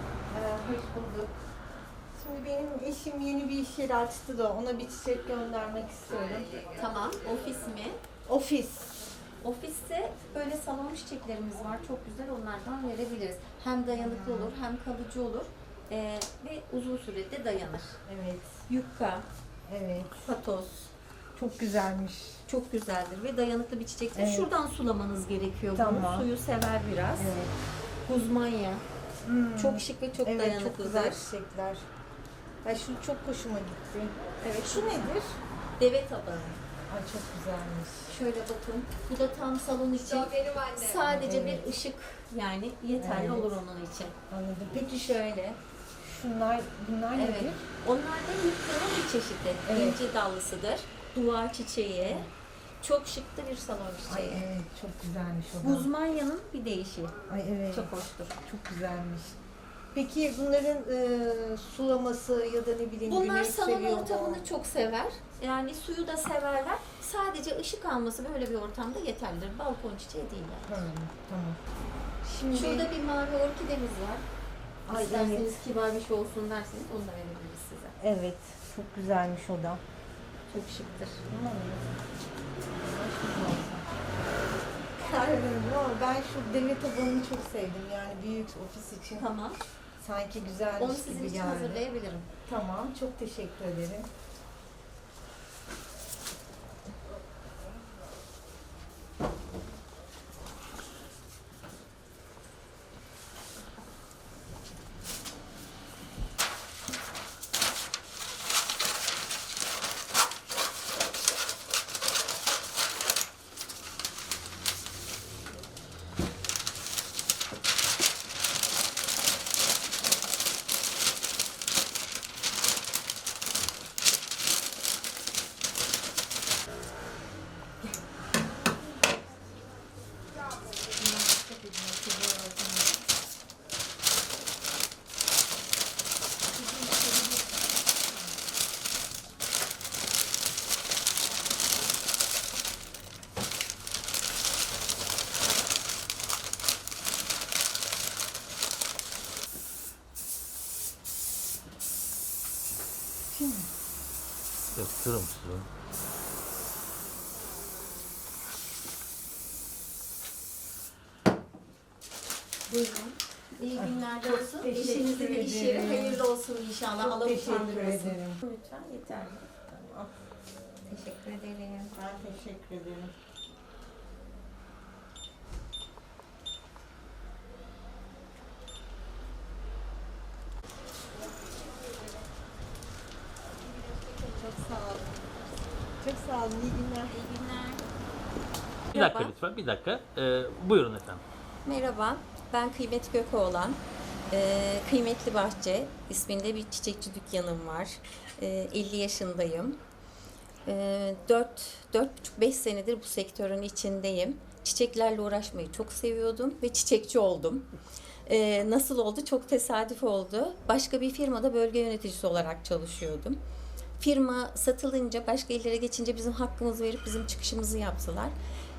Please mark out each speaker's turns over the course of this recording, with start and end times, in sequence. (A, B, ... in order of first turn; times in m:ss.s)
0:00.3-0:01.4 A
0:02.1-0:06.6 A
0:06.8-0:08.0 B
0:08.2-0:09.0 A
0:09.4-0:18.0 B
0:13.9-0:14.5 A
0:18.0-0:18.6 A
0:18.7-0:19.2 B
0:19.7-0:20.2 A
0:20.2-0:20.9 B
0:21.3-0:22.4 A
0:22.5-0:27.3 B
0:24.1-0:24.5 A
0:25.7-0:26.3 A
0:27.2-0:27.5 A
0:28.0-0:28.8 B
0:29.2-0:31.8 A
0:29.6-0:31.3 B
0:32.6-0:35.4 A
0:34.4-0:34.9 B
0:35.8-0:36.6 B
0:36.9-0:38.1 A
0:38.1-0:44.1 B
0:40.9-0:41.7 A
0:43.0-0:43.6 A
0:44.3-0:47.6 A
0:45.2-0:45.5 B
0:47.2-0:52.3 B
0:49.7-0:50.0 A
0:52.8-0:54.4 B
0:54.1-0:55.9 A
0:55.6-0:57.1 B
0:57.3-0:57.9 A
0:57.7-0:58.4 B
0:58.4-0:59.4 A
0:59.9-1:04.4 A
1:03.1-1:10.9 B
1:10.6-1:11.6 A
1:12.2-1:12.9 A
1:12.5-1:14.2 B
1:14.8-1:15.5 A
1:14.9-1:18.0 B
1:18.0-1:19.8 A
1:20.5-1:21.2 B
1:21.3-1:22.0 A
1:22.7-1:23.9 A
1:25.0-1:29.3 A
1:29.2-1:29.7 B
1:30.0-1:34.1 A
1:30.8-1:32.3 B
2:11.0-2:12.8 B
2:33.3-2:33.7 A
2:34.7-2:35.7 C
2:42.7-2:49.8 B
2:43.7-2:46.3 A
2:47.0-2:48.4 A
2:49.7-2:50.1 A
2:50.9-2:51.9 B
2:51.9-2:53.1 A
3:04.3-3:05.2 A
3:06.0-3:07.2 A
3:07.1-3:07.8 B
3:08.9-3:09.3 B
3:08.9-3:11.2 C
3:11.6-3:19.8 B
3:20.6-3:27.6 B
3:28.2-3:33.4 B
3:34.0-3:38.3 B